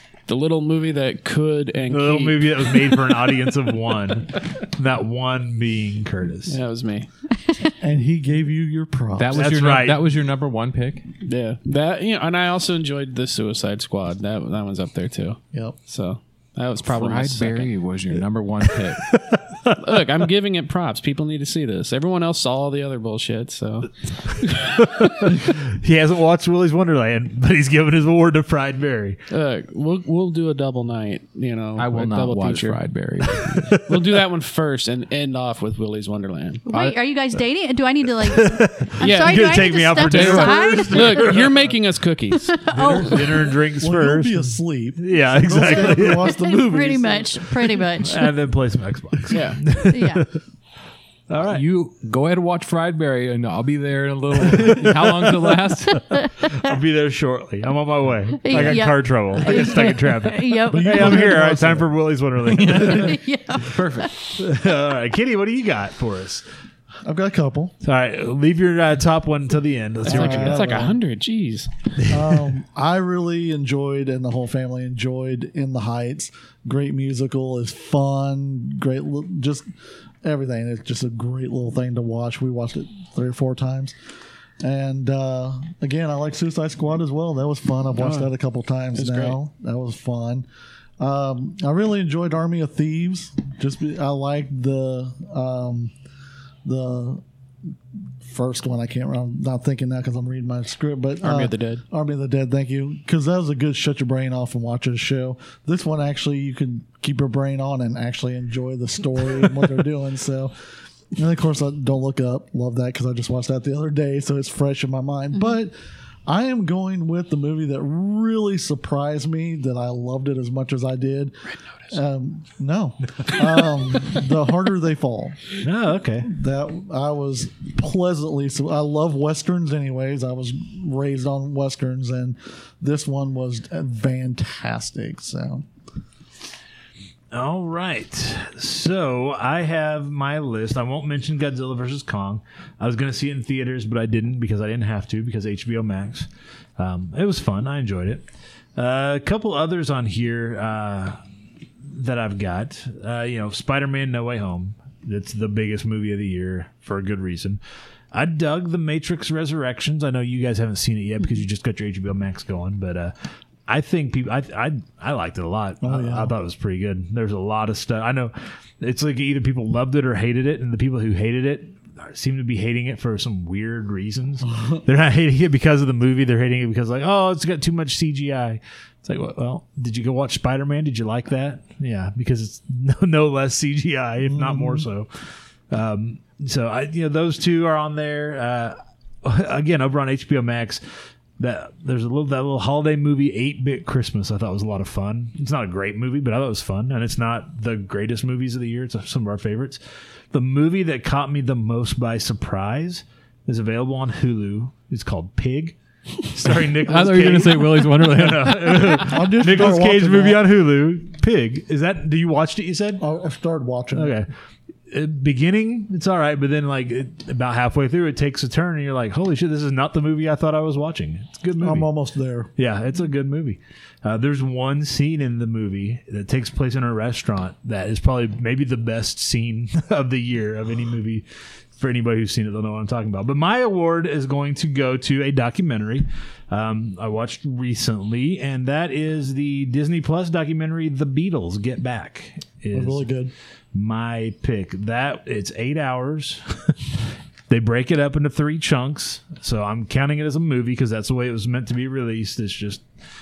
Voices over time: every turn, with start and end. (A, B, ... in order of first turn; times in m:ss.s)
0:00.3-0:03.0 A
0:01.9-0:06.6 B
0:06.5-0:07.1 A
0:07.4-0:07.7 C
0:07.8-0:09.5 D
0:09.2-0:11.0 E
0:09.3-0:10.0 B
0:11.2-0:17.7 A
0:16.9-0:19.0 E
0:19.1-0:19.8 B
0:19.8-0:25.3 A
0:24.6-0:29.2 B
0:29.3-0:36.9 A
0:31.8-0:33.8 E
0:33.5-0:34.2 B
0:36.7-0:41.4 C
0:38.2-0:41.7 B
0:39.0-0:42.6 A
0:42.5-0:43.6 C
0:42.7-0:46.3 B
0:43.8-0:47.8 D
0:45.7-0:48.3 C
0:48.0-0:50.3 B
0:49.3-0:49.6 A
0:49.9-0:50.2 C
0:51.3-0:51.6 B
0:51.5-0:56.0 E
0:54.4-0:55.6 B
0:56.1-0:56.5 C
0:56.6-1:03.2 B
0:58.4-1:01.3 C
1:00.7-1:01.9 D
1:02.5-1:04.1 E
1:02.9-1:04.1 C
1:04.4-1:06.4 B
1:07.0-1:07.7 D
1:07.8-1:10.7 B
1:10.0-1:11.0 D
1:10.0-1:11.7 A
1:12.1-1:19.6 D
1:20.2-1:24.0 D
1:24.6-1:30.5 D
1:28.0-1:28.3 A
1:29.0-1:29.4 A
1:31.0-1:35.9 D
1:36.6-1:37.2 D
1:38.2-1:50.5 D
1:41.2-1:41.8 A
1:51.1-1:55.7 D
1:56.3-2:01.4 D
2:01.9-2:05.4 D
2:05.6-2:06.3 B
2:06.2-2:15.7 D
2:17.3-2:28.2 B
2:28.8-2:31.2 B
2:31.9-2:37.6 B
2:38.1-2:43.1 B
2:43.7-3:05.1 B
2:45.8-2:46.3 D
2:54.4-2:54.8 D
3:04.2-3:04.9 D
3:05.7-3:10.8 B
3:11.4-3:19.8 B
3:20.3-3:33.0 B
3:26.8-3:29.2 E
3:29.0-3:30.6 D
3:33.0-3:34.2 D
3:33.9-3:34.3 B
3:34.9-3:41.9 B
3:41.6-3:42.5 D
3:42.6-3:51.2 B
3:51.8-4:03.1 B
4:02.7-4:03.3 D
4:03.7-4:06.7 B
4:07.5-4:12.8 B